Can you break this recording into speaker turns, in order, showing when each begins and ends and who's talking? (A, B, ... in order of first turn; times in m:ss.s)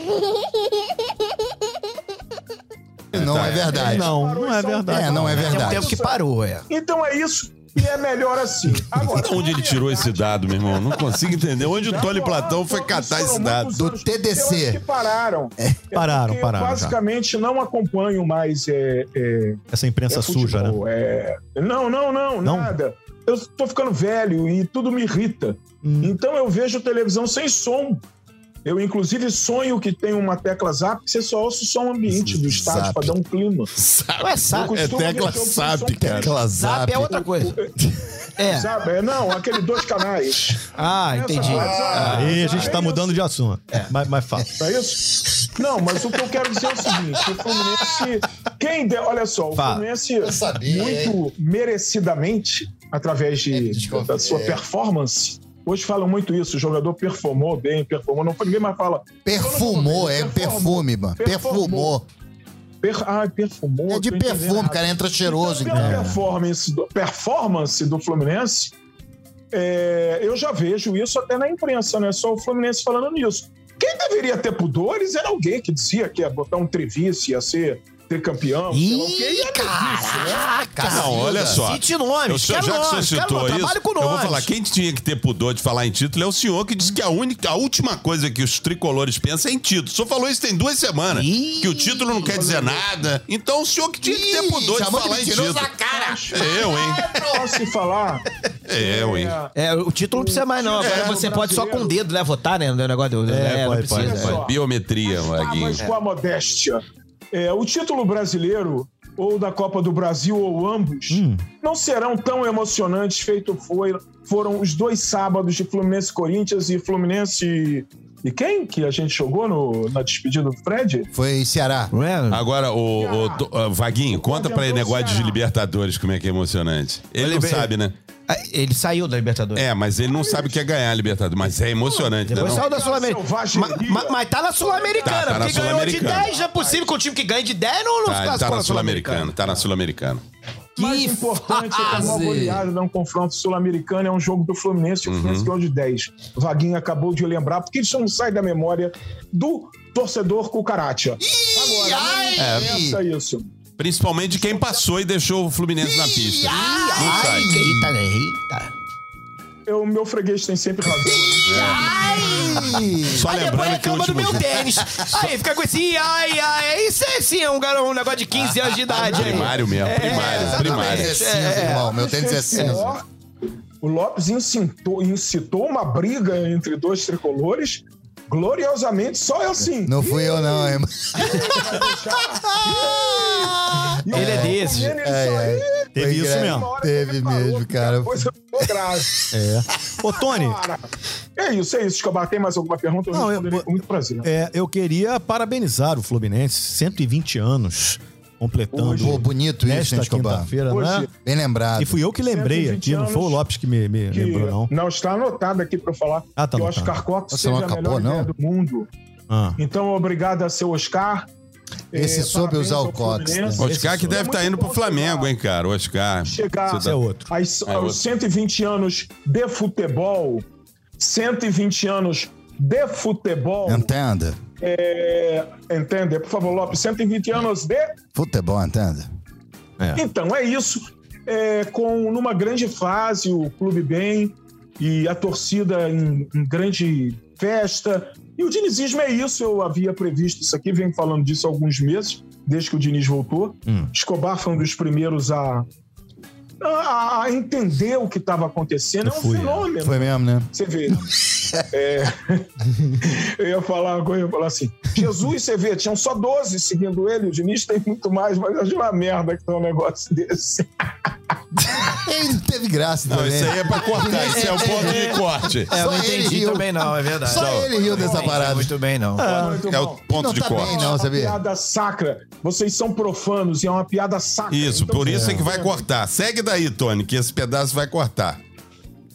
0:03.1-0:03.7 A
0:03.1-0:04.2 B
0:03.4-0:11.0 C
0:03.7-0:05.7 D
0:04.9-0:05.9 B
0:05.4-0:06.6 E
0:09.0-0:13.7 A
0:11.6-0:28.0 C
0:13.7-0:14.8 B
0:15.9-0:17.0 D
0:19.7-0:20.8 D
0:22.4-0:22.7 D
0:25.8-0:26.2 D
0:28.6-0:33.7 C
0:32.1-0:33.2 B
0:33.8-0:36.4 A
0:34.2-0:34.9 E
0:34.5-0:36.4 C
0:36.0-0:37.2 B
0:36.4-0:37.6 E
0:37.1-0:37.7 C
0:38.4-0:38.7 E
0:38.4-0:43.2 C
0:40.7-0:42.8 E
0:41.4-0:42.4 B
0:42.0-0:44.5 D
0:44.6-1:02.0 C
0:49.5-0:49.8 D
0:50.2-0:51.2 B
0:53.5-0:54.6 B
0:59.2-1:02.1 B
1:02.8-1:08.7 C
1:03.9-1:06.2 B
1:05.7-1:06.2 D
1:09.5-1:20.5 C
1:18.7-1:24.5 E
1:18.9-1:21.7 B
1:20.8-1:35.7 A
1:31.1-1:32.2 E
1:32.2-1:33.0 C
1:34.0-1:37.6 B
1:35.9-1:39.5 C
1:36.3-1:37.0 A
1:38.7-1:39.4 A
1:39.6-1:44.4 E
1:40.1-1:42.0 C
1:40.8-1:41.2 A
1:43.3-1:44.4 D
1:43.9-2:01.1 C
1:44.1-1:45.8 A
1:51.1-1:51.5 D
2:01.1-2:01.9 B
2:01.9-2:02.4 E
2:02.3-2:07.9 A
2:03.0-2:03.5 C
2:04.1-2:05.4 C
2:07.2-2:07.7 E
2:08.3-2:09.7 E
2:09.6-2:12.7 A
2:10.1-2:10.6 C
2:11.8-2:16.9 C
2:12.3-2:19.6 E
2:15.0-2:16.3 A
2:18.0-2:20.2 A
2:20.8-2:33.5 C
2:20.8-2:22.6 E
2:21.9-2:22.2 A
2:25.1-2:25.5 A
2:31.2-2:33.0 B
2:32.4-2:32.7 A
2:33.8-2:37.5 A
2:34.3-2:34.8 C
2:35.8-2:37.9 B
2:36.5-2:38.7 E
2:39.7-2:41.9 C
2:40.8-2:43.3 B
2:41.5-2:42.4 A
2:41.6-2:51.9 E
2:43.0-2:45.1 A
2:48.8-2:51.2 A
2:48.9-2:53.0 B
2:51.6-2:53.0 C
2:53.8-3:09.3 C
2:59.8-3:08.3 B
3:04.1-3:05.0 E
3:05.9-3:06.7 D
3:09.3-3:10.6 D
3:10.1-3:14.3 C
3:13.1-3:13.7 D
3:14.2-3:21.1 D
3:18.7-3:19.2 C
3:19.0-3:20.5 B
3:20.7-3:21.1 C
3:21.2-3:22.0 B
3:21.8-3:24.7 D
3:22.2-3:23.4 C
3:24.1-3:28.9 C
3:26.4-3:27.0 D
3:27.3-3:28.3 B
3:29.3-3:29.6 D
3:29.6-3:31.3 C
3:31.9-3:33.7 B
3:31.9-3:35.3 C
3:33.6-3:37.0 A
3:33.6-3:34.2 D
3:36.2-3:40.4 C
3:36.8-3:37.3 D
3:37.7-3:38.0 A
3:41.0-3:43.9 C
3:43.7-3:44.4 B
3:44.6-3:48.0 C
3:48.2-3:49.1 B
3:50.0-4:05.7 C
4:06.6-4:21.1 C
4:09.0-4:09.7 D
4:09.8-4:10.5 B
4:21.8-4:28.7 B
4:23.1-4:25.7 A
4:24.2-4:29.5 E
4:27.3-4:27.9 A
4:27.9-4:28.4 C
4:29.2-4:35.8 C
4:29.2-4:29.6 D
4:29.6-4:30.9 A
4:30.1-4:31.4 B
4:34.5-4:38.4 A
4:35.1-4:35.5 D